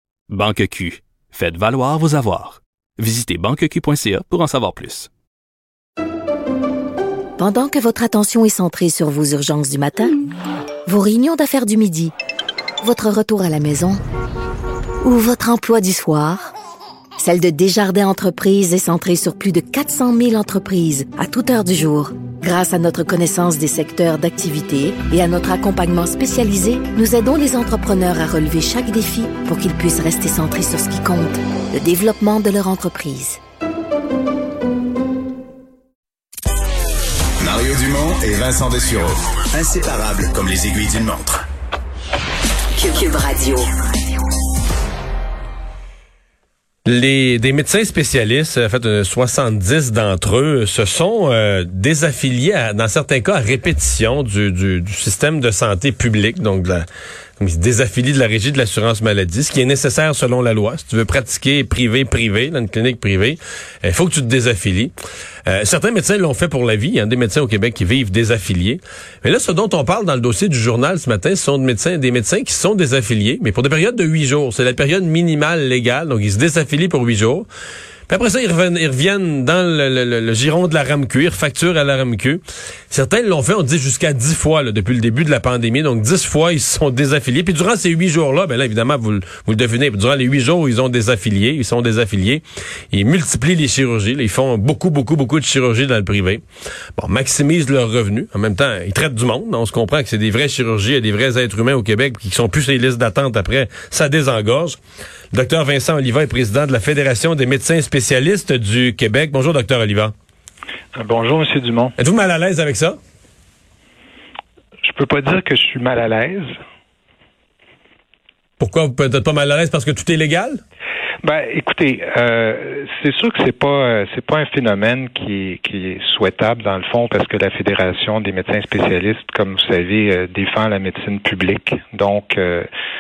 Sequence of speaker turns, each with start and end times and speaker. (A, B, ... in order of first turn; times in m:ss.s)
0:00.3-0:05.1 A
0:07.4-0:10.2 B
0:10.9-0:12.1 B
0:12.8-0:14.0 B
0:15.0-0:16.5 B
0:17.2-0:33.4 B
0:37.4-0:41.4 C
0:42.8-0:43.7 B
0:46.9-0:56.9 D
0:57.4-1:04.9 D
1:05.5-1:17.5 D
1:18.1-1:36.4 D
1:37.0-1:44.8 D
1:45.3-1:50.1 D
1:51.0-1:52.0 E
1:52.0-1:53.0 D
1:54.8-1:56.5 E
1:58.6-2:00.6 D
2:01.2-2:12.7 E